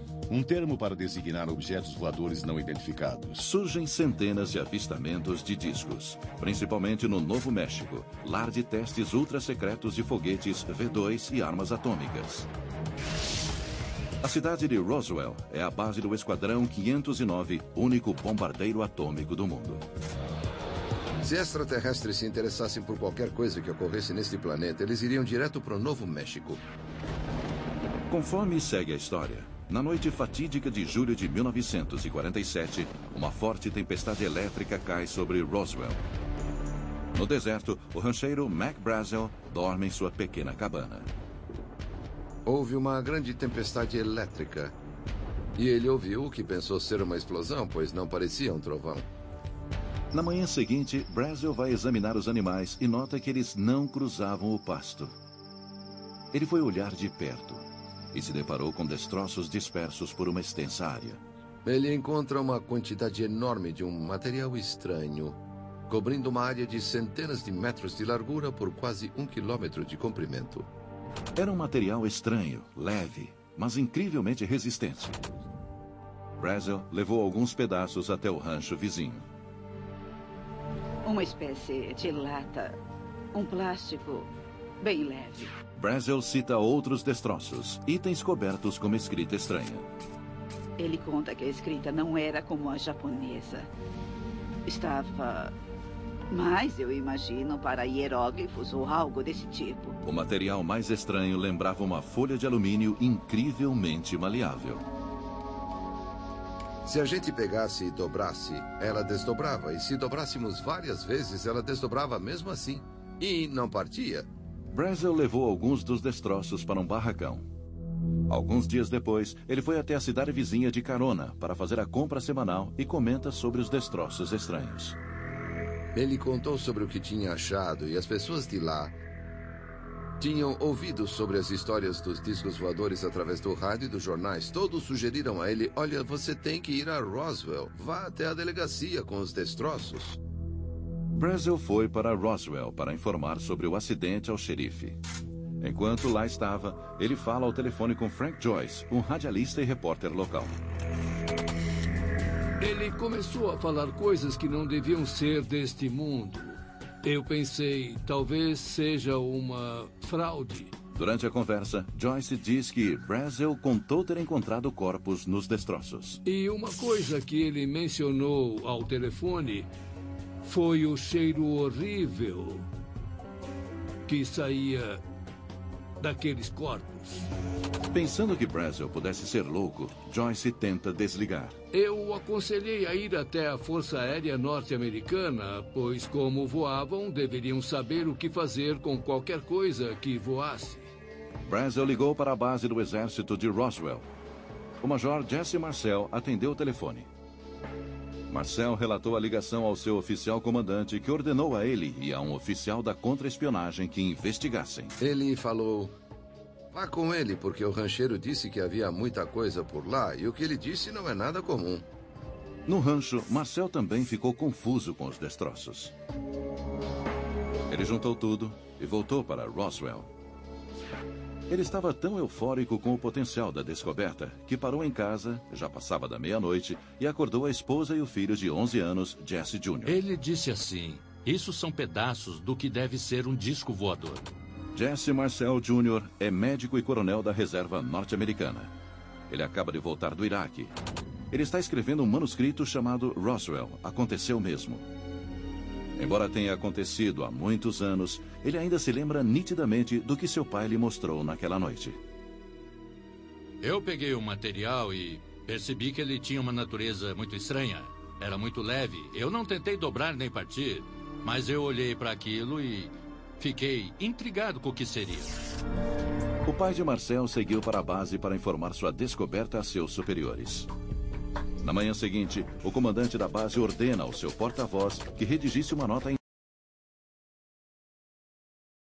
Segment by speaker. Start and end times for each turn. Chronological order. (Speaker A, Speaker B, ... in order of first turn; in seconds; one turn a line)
Speaker A: 0.3-3.5
Speaker B: 3.4-12.5
Speaker B: 14.2-19.8
Speaker C: 21.2-26.6
Speaker B: 28.1-36.0
Speaker B: 37.1-41.1
Speaker C: 42.5-44.7
Speaker C: 45.6-49.0
Speaker B: 50.1-55.1
Speaker B: 56.3-61.2
Speaker C: 61.6-70.7
Speaker B: 71.3-75.2
Speaker B: 76.4-79.2
Speaker D: 81.0-82.8
Speaker D: 83.3-84.3
Speaker D: 84.8-85.5
Speaker B: 85.8-89.8
Speaker D: 90.8-93.7
Speaker D: 94.7-95.5
Speaker D: 96.3-100.0
Speaker B: 100.0-104.8
Speaker C: 106.8-114.3
Speaker B: 114.7-117.5
Speaker B: 118.3-125.0
Speaker C: 125.9-128.9
Speaker C: 130.2-140.2
Speaker B: 141.1-145.0
Speaker B: 145.6-150.6
Speaker E: 152.6-160.7
Speaker B: 160.9-166.2
Speaker E: 166.2-169.7
Speaker E: 170.4-172.7
Speaker E: 174.1-175.0
Speaker E: 176.0-177.3
Speaker B: 177.9-181.6
Speaker E: 181.7-190.9
Speaker B: 191.4-194.1
Speaker B: 194.8-197.1
Speaker B: 198.3-204.9
Speaker C: 205.0-205.9
Speaker C: 206.7-211.9
Speaker B: 212.7-215.9
Speaker B: 217.7-220.1
Speaker B: 221.5-230.0
Speaker F: 229.8-234.2
Speaker B: 234.7-238.7
Speaker B: 239.3-240.7
Speaker B: 241.3-244.9
Speaker B: 246.0-252.0
Speaker F: 253.6-265.3
Speaker B: 266.4-270.7
Speaker B: 271.6-276.2